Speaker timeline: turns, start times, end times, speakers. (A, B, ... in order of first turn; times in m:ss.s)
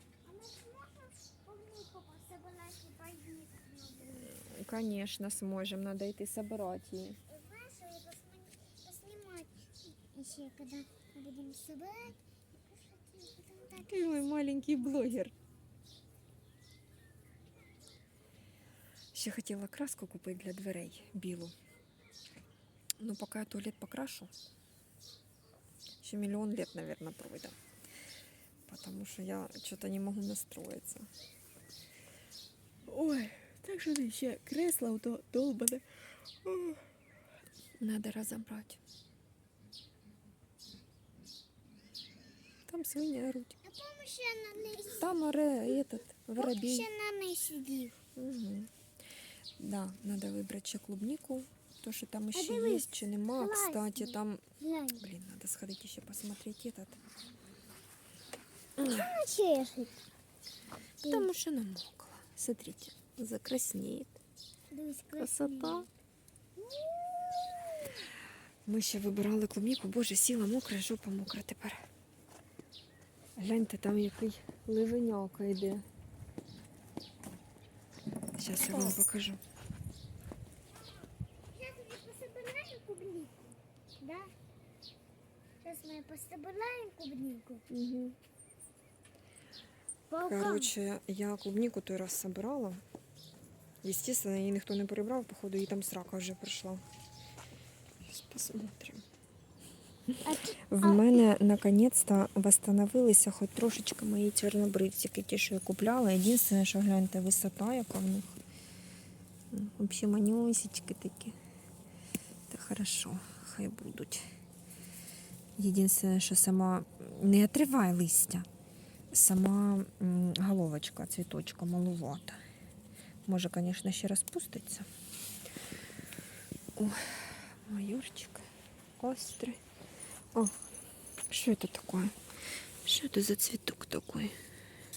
0:00.2-0:04.4 A
0:04.2-0:07.2 B
0:07.3-0:13.9 A
0:13.7-0:15.3 B
0:19.1-0:21.5 B
0:23.0-0:24.3 B
0:26.0-0:27.6 B
0:28.7-0:31.1 B
0:32.9-0:35.8 B
0:36.4-0:36.8 B
0:37.8-0:38.8 B
0:42.7-0:43.6 B
0:43.6-0:45.1 A
0:45.0-0:46.9 B
0:46.4-0:48.0 A
0:48.2-0:48.7 B
0:49.6-0:54.4 B
0:52.3-0:55.0 A
0:55.0-0:57.0 B
0:58.8-0:59.1 B
0:58.8-1:00.0 A
1:01.0-1:04.2 B
1:04.7-1:05.9 A
1:05.2-1:05.9 B
1:06.6-1:07.5 A
1:08.7-1:11.9 B
1:13.4-1:15.8 B
1:18.4-1:19.4 B
1:21.5-1:24.3 A
1:25.6-1:27.6 A
1:27.7-1:28.2 B
1:30.1-1:30.7 A
1:30.2-1:32.8 B
1:33.8-1:36.8 B
1:38.0-1:39.0 B
1:40.2-1:41.2 A
1:40.7-1:48.4 B
1:49.5-1:51.4 B
1:52.5-1:54.3 B
1:55.6-1:58.5 B
1:59.1-2:02.4 B
2:03.3-2:04.9 B
2:06.8-2:09.6 B
2:11.3-2:12.2 B
2:12.8-2:14.4 B